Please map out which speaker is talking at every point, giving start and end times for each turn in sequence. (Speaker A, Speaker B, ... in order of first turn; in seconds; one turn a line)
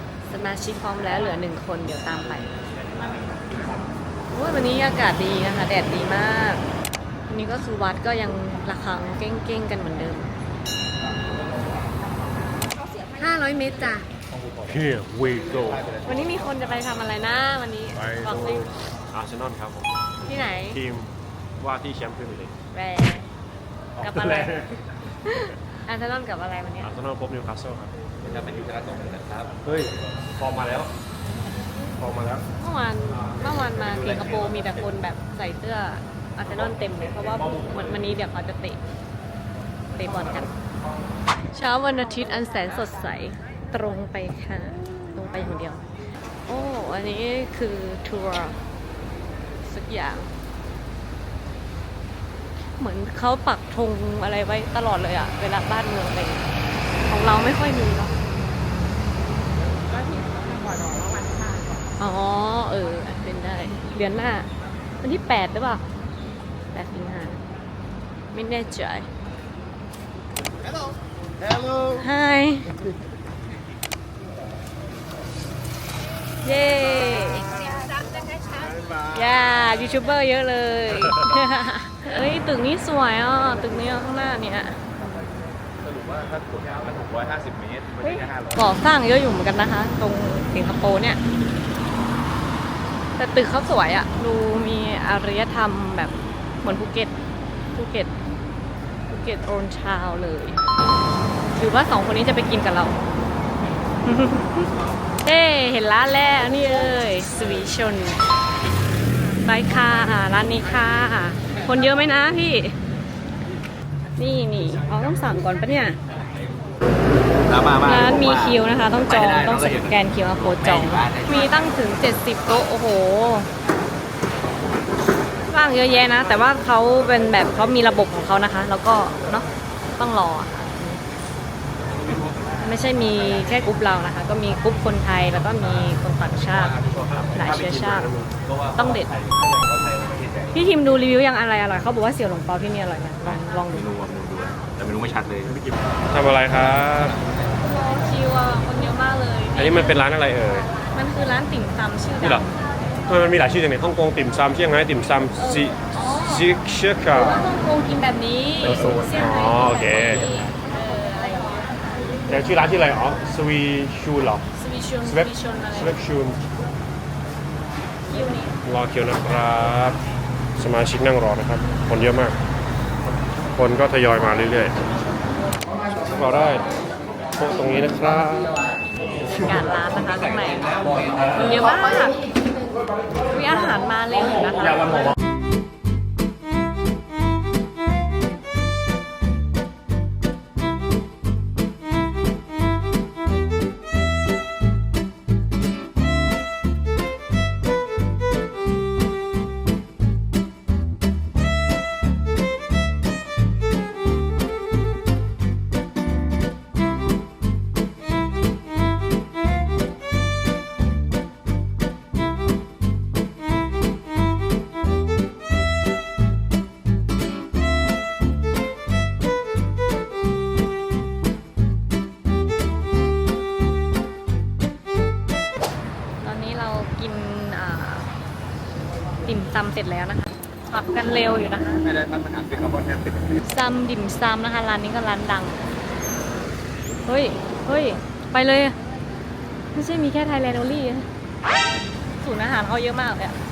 Speaker A: 0.3-2.5
Speaker A: 4.3-6.7
Speaker A: 7.3-10.3
Speaker A: 13.2-14.1
Speaker B: 14.3-14.8
Speaker C: 14.7-15.8
Speaker B: 15.5-16.4
Speaker A: 16.0-18.7
Speaker C: 18.0-19.9
Speaker A: 20.2-20.8
Speaker C: 20.7-22.5
Speaker A: 22.7-23.3
Speaker C: 24.0-24.8
Speaker A: 24.0-24.6
Speaker A: 25.2-26.9
Speaker C: 26.8-27.9
Speaker B: 28.2-29.6
Speaker C: 29.6-30.9
Speaker C: 32.0-32.5
Speaker A: 32.6-38.8
Speaker B: 33.7-34.7
Speaker A: 39.9-40.5
Speaker A: 41.5-45.9
Speaker A: 46.5-48.6
Speaker A: 49.6-50.3
Speaker A: 52.8-56.5
Speaker A: 57.0-58.1
Speaker D: 59.7-61.9
Speaker A: 62.0-64.5
Speaker A: 65.0-65.8
Speaker A: 66.7-67.4
Speaker A: 68.3-69.1
Speaker A: 72.0-72.7
Speaker A: 76.4-77.5
Speaker D: 77.5-78.8
Speaker A: 79.1-84.8
Speaker B: 85.8-88.8
Speaker A: 88.0-91.2
Speaker A: 93.2-97.1
Speaker A: 97.7-98.1
Speaker A: 99.1-100.6
Speaker A: 101.5-103.0
Speaker A: 104.0-104.7
Speaker A: 105.2-108.2
Speaker A: 109.4-112.7
Speaker A: 114.2-116.0
Speaker B: 117.4-121.7
Speaker A: 117.8-123.5
Speaker A: 125.5-129.4
Speaker A: 130.0-131.0
Speaker B: 132.1-132.5
Speaker A: 132.6-136.8
Speaker B: 136.4-137.5
Speaker C: 136.9-138.3
Speaker A: 137.3-138.1
Speaker B: 138.4-140.6
Speaker A: 138.7-139.1
Speaker A: 140.5-143.8
Speaker B: 143.7-145.6
Speaker C: 145.5-147.2
Speaker A: 147.6-150.0
Speaker C: 149.6-150.7
Speaker A: 150.8-152.5
Speaker C: 152.2-152.4
Speaker C: 153.1-157.5
Speaker A: 155.3-156.5
Speaker A: 157.1-161.7
Speaker C: 158.6-160.3
Speaker C: 162.3-164.4
Speaker A: 164.5-166.0
Speaker C: 165.0-166.4
Speaker A: 168.1-168.5
Speaker C: 168.6-170.0
Speaker C: 170.6-172.4
Speaker C: 173.5-174.8
Speaker C: 176.0-176.6
Speaker C: 177.4-178.6
Speaker A: 179.3-182.2
Speaker B: 180.9-181.3
Speaker A: 183.2-185.1
Speaker A: 226.2-228.1
Speaker A: 229.2-231.9
Speaker B: 231.8-233.4
Speaker A: 233.4-235.6
Speaker A: 237.1-238.8
Speaker A: 239.7-241.1
Speaker A: 242.2-243.4